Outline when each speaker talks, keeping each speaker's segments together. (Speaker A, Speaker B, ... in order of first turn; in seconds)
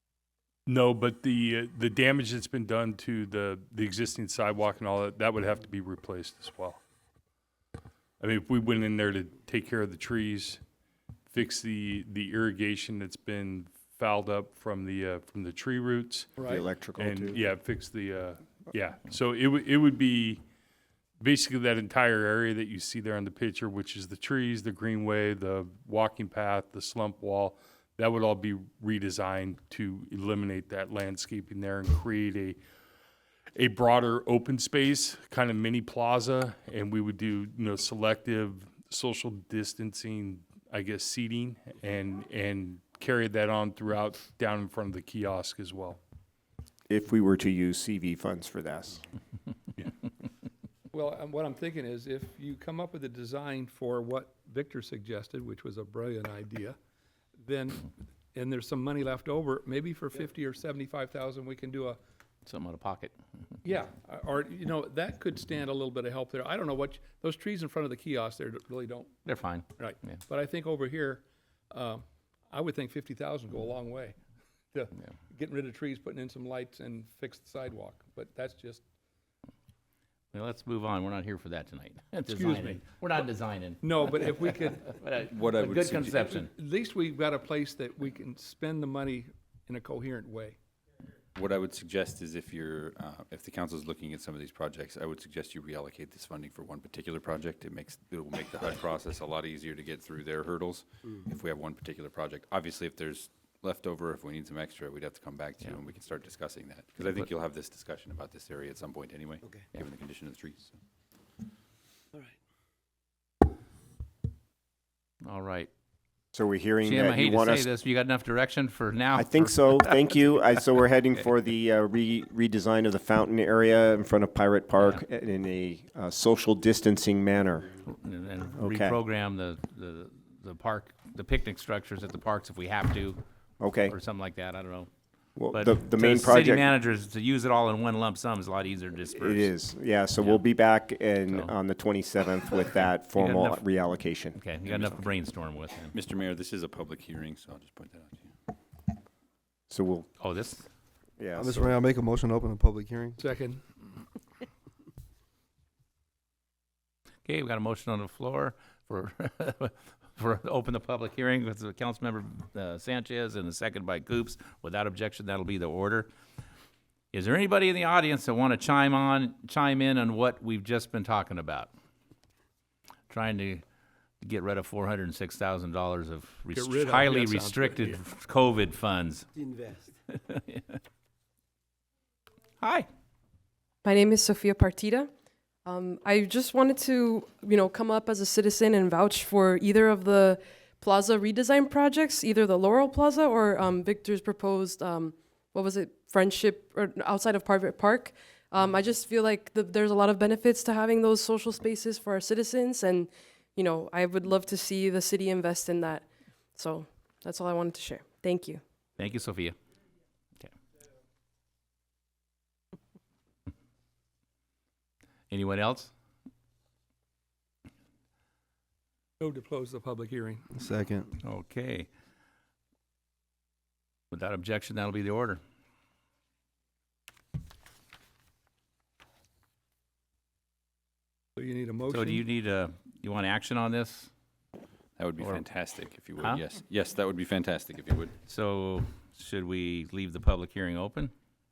Speaker A: 0.7-6.8, 8.2-10.6, 11.3-16.3, 17.0-20.4, 21.2-32.6, 33.6-46.0
Speaker B: 16.4-16.6, 50.9-56.8, 57.4-62.0, 63.6-69.2, 69.7-74.2, 74.7-78.8, 82.3-82.8, 83.8-85.0, 86.1-90.6, 153.2-153.6, 176.5-178.0, 219.2-220.5, 231.4-232.2
Speaker C: 16.4-17.4, 46.9-49.0, 116.3-117.7, 119.1-127.7, 128.6-129.0, 133.6-133.9, 135.4-136.7, 139.1-144.4, 149.7-150.1, 151.2-151.7
Speaker D: 62.5-63.1, 69.2-70.2, 80.3-84.1, 84.8-86.5, 115.2-115.7, 116.8-120.1, 124.8-125.0, 127.8-133.2, 133.8-134.9, 135.5-139.5, 140.2-140.4, 141.3-141.5, 143.1-143.6, 144.3-146.0, 150.2-150.6, 157.2-166.1, 167.1-171.7, 173.1-173.6, 174.2-179.3, 180.2-180.8, 182.6-182.9, 209.0-209.6, 215.3-215.9, 221.2-221.9, 224.1-225.4, 231.9-234.1, 235.2-235.4, 236.2-236.5, 238.2-241.1
Speaker E: 85.3-86.2, 91.3-110.7, 145.9-148.2, 235.0-238.1
Speaker F: 94.2-95.0, 95.7-103.1, 103.8-104.4, 106.2-106.9, 107.5-110.6, 146.2-148.1, 179.3-179.9
Speaker G: 151.3-153.2, 220.5-221.1
Speaker H: 183.8-185.1, 185.6-208.6